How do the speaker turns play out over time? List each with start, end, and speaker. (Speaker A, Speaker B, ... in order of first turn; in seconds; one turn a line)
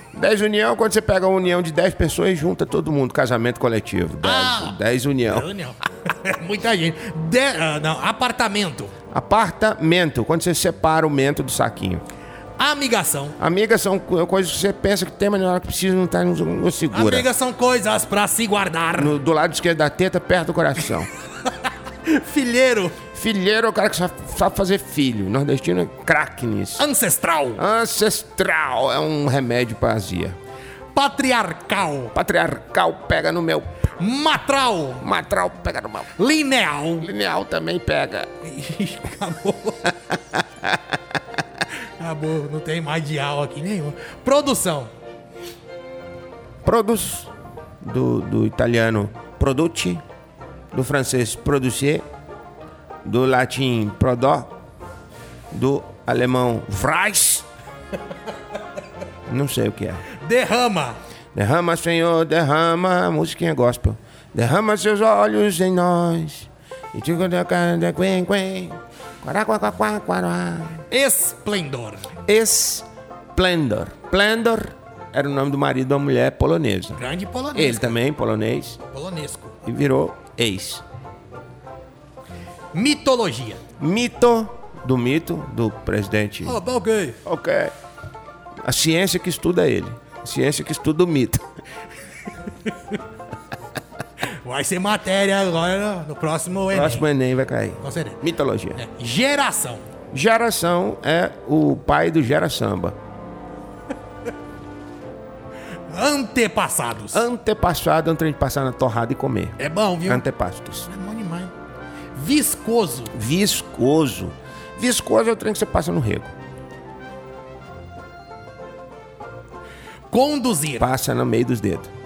Speaker A: 0.1-5.5
Speaker B: 4.2-8.9
Speaker A: 9.1-12.0
Speaker B: 12.6-13.3
Speaker A: 13.4-17.3
Speaker B: 16.9-19.1
Speaker A: 18.9-21.1
Speaker B: 22.0-23.0
Speaker A: 23.1-26.8
Speaker B: 26.8-27.6
Speaker A: 27.6-30.4
Speaker B: 30.9-32.1
Speaker A: 32.1-33.7
Speaker B: 34.0-35.0
Speaker A: 35.0-36.1
Speaker B: 36.2-37.1
Speaker A: 37.0-38.3
Speaker B: 38.4-39.9
Speaker B: 42.0-44.9
Speaker A: 46.6-50.0
Speaker A: 50.7-52.0
Speaker A: 53.0-54.5
Speaker A: 55.5-57.5
Speaker A: 59.3-60.0
Speaker B: 60.2-61.0
Speaker A: 61.3-70.8
Speaker B: 70.9-72.0
Speaker A: 72.2-77.0
Speaker B: 77.0-78.0
Speaker A: 77.5-78.8
Speaker B: 78.9-79.5
Speaker A: 79.6-80.8
Speaker B: 82.7-83.6
Speaker A: 83.8-86.6
Speaker B: 86.4-87.2
Speaker A: 87.2-87.7
Speaker A: 88.6-91.5
Speaker B: 94.2-97.0
Speaker A: 96.7-98.8
Speaker B: 97.8-98.2
Speaker B: 98.8-99.8
Speaker A: 100.1-103.0
Speaker B: 105.9-107.2
Speaker A: 107.1-110.9
Speaker B: 109.6-110.2
Speaker B: 110.9-111.5
Speaker B: 112.2-113.1
Speaker A: 113.1-116.3
Speaker B: 120.1-120.9
Speaker A: 120.8-121.9